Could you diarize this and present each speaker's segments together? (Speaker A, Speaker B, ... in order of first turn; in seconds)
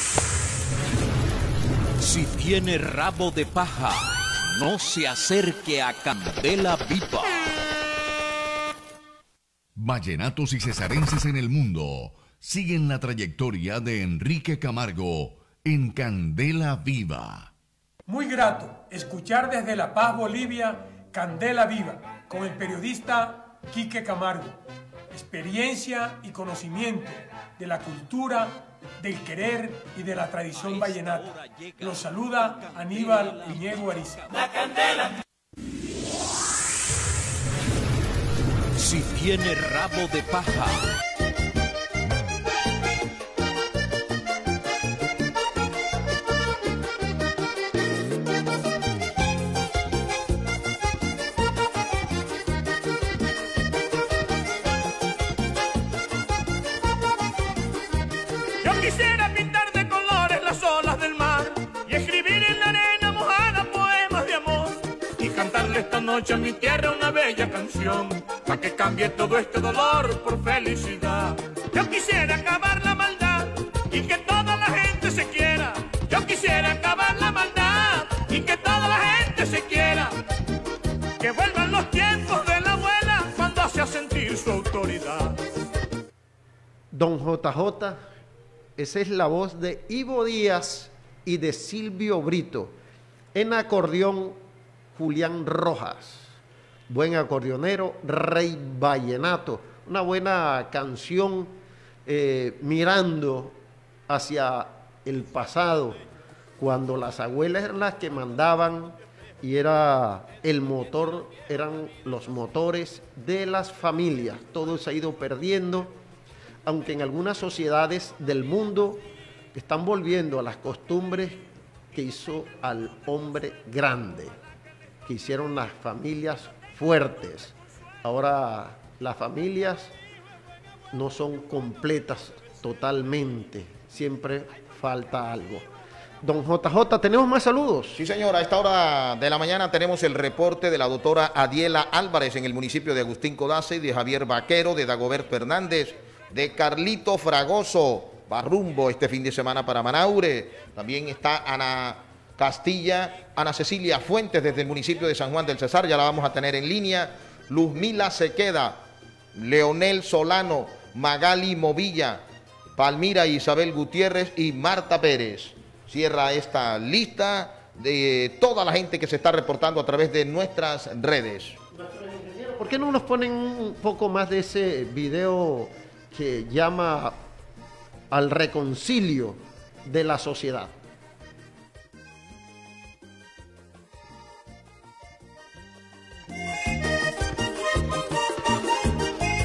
Speaker A: 2.0-7.5, 30.5-34.3, 38.7-40.9
Speaker B: 9.8-17.5
Speaker C: 18.1-24.6, 25.1-34.2
Speaker D: 58.6-80.1, 81.2-85.3
Speaker E: 86.9-88.0, 88.8-92.7, 93.3-94.4, 95.0-96.3, 96.9-101.5, 102.0-103.5, 104.1-106.0, 106.6-115.9, 116.7-121.4, 121.9-124.3, 125.0-129.9, 130.9-135.7, 136.2-138.0, 171.7-177.2, 178.1-180.7
Speaker F: 137.9-158.8, 159.3-162.2, 162.8-171.6